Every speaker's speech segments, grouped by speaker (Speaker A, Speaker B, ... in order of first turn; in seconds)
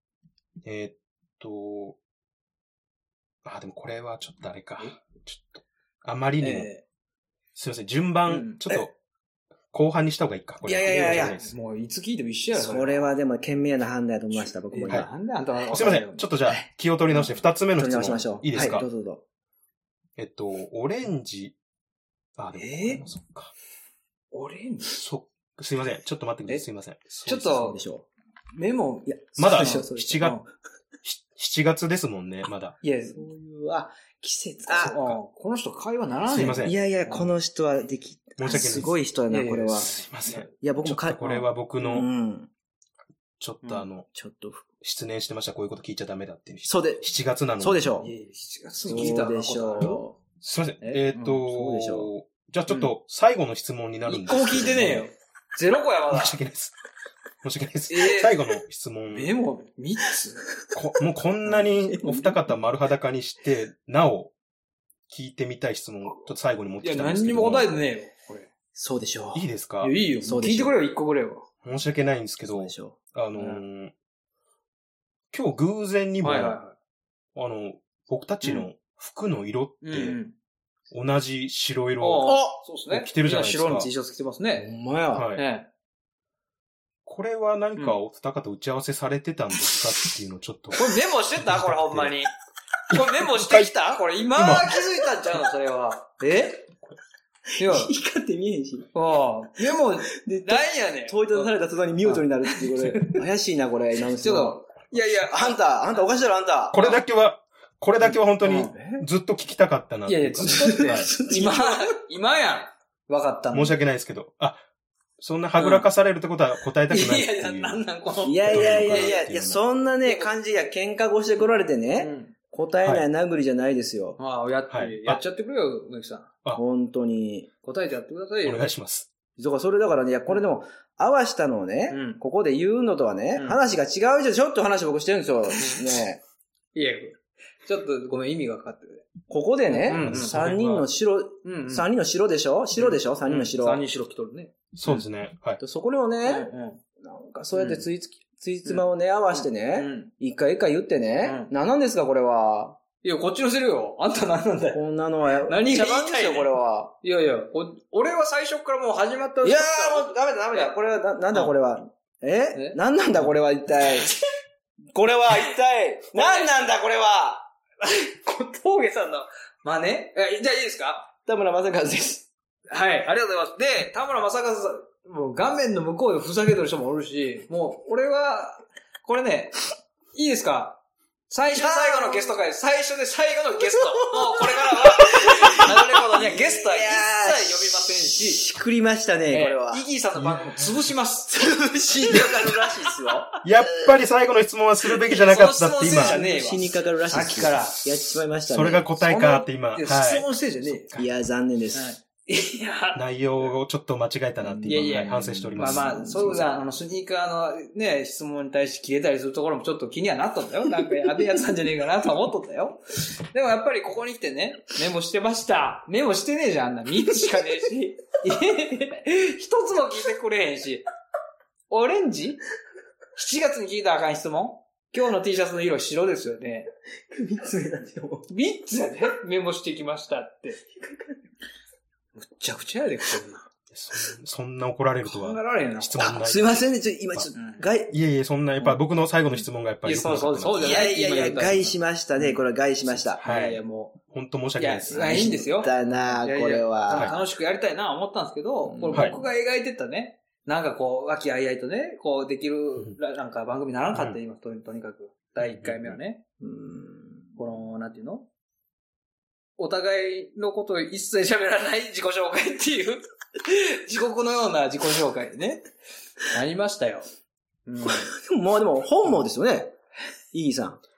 Speaker A: 0.6-2.0, 3.4-6.7, 7.5-8.9, 9.7-11.5, 15.7-18.9, 20.2-21.6, 22.4-23.5, 24.9-27.5, 29.4-30.4, 31.0-32.8, 34.9-35.2, 36.3-36.8, 38.4-39.0, 39.8-42.1, 43.4-44.1, 44.8-47.9, 50.4-55.1, 56.1-56.8, 57.4-59.3, 60.7-64.3, 65.1-67.7, 69.3-70.0, 71.6-73.9, 75.3-76.6, 77.3-80.2, 80.9-83.9, 85.2-85.4, 87.0-92.2, 92.9-93.7, 94.3-94.8, 106.7-111.1, 113.5-114.6, 115.2-117.8, 118.5-119.6, 124.7-125.2, 128.4-129.1, 139.9-140.7, 144.8-145.6, 190.2-190.9, 193.4-196.2, 198.5-201.1, 202.9-206.4, 233.7-236.6, 237.9-240.9, 242.9-245.4, 246.9-247.2, 253.9-254.2, 255.4-256.0
Speaker B: 6.4-6.8, 8.3-8.7, 10.7-13.2, 14.3-16.3, 18.6-18.8, 22.6-23.0, 24.3-25.0, 27.2-27.8, 28.6-30.5, 32.8-33.2, 34.7-37.3, 39.3-40.5, 48.0-50.0, 50.8-51.4, 54.1-56.4, 57.9-60.5, 66.8-68.5, 69.8-71.5, 73.4-73.6, 76.2-76.8, 78.4-78.7, 79.8-80.3, 82.0-84.7, 85.4-85.7, 90.7-92.3, 92.9-96.7, 97.6-97.9, 98.9-103.2, 104.2-105.6, 106.7-107.0, 108.0-108.8, 110.1-113.8, 115.6-115.9, 116.9-119.2, 120.0-120.3, 122.0-122.3, 124.2-126.3, 127.6-128.7, 131.9-132.2, 133.4-133.7, 135.6-135.8, 136.7-139.1, 139.7-140.8, 141.4-141.9, 142.8-145.0, 146.2-146.8, 147.5-147.9, 148.7-150.1, 151.2-151.5, 153.0-154.8, 155.4-160.7, 162.5-163.2, 163.8-164.2, 166.1-166.5, 167.8-171.1, 172.7-188.4, 189.3-193.2, 194.9-197.8, 199.0-200.9, 201.8-203.5, 204.4-220.9, 221.7-222.4, 223.2-226.7, 228.3-230.6, 232.2-233.5, 235.0-236.2, 237.3-237.7, 239.3-242.4, 243.2-244.0, 244.6-256.2, 257.4-258.3, 259.6-265.7, 266.3-267.1, 267.7-268.1
Speaker C: 10.9-11.4, 12.6-15.1, 17.8-19.2, 27.3-28.1, 29.1-30.4, 33.1-35.0, 36.6-40.0, 40.6-42.5, 44.1-44.7, 46.7-47.0, 47.6-48.1, 48.8-50.2, 51.4-52.1, 61.9-62.4, 68.7-69.5, 70.2-70.8, 72.4-73.0, 82.3-82.5, 84.6-85.3, 97.6-98.9, 99.7-106.8, 108.8-109.0, 110.5-112.0, 118.2-124.2, 126.5-127.5, 129.4-136.2, 139.3-143.8, 145.6-152.8, 154.7-156.9, 159.4-164.1, 164.9-167.5, 171.3-172.3, 181.5-182.4, 183.6-189.8, 191.3-193.3, 195.9-198.9, 200.9-201.9, 204.6-206.4, 227.1-228.3, 230.8-231.1, 236.0-237.9, 240.6-243.2, 244.9-247.2, 248.7-249.3, 256.4-257.3, 267.9-269.7, 270.3-270.8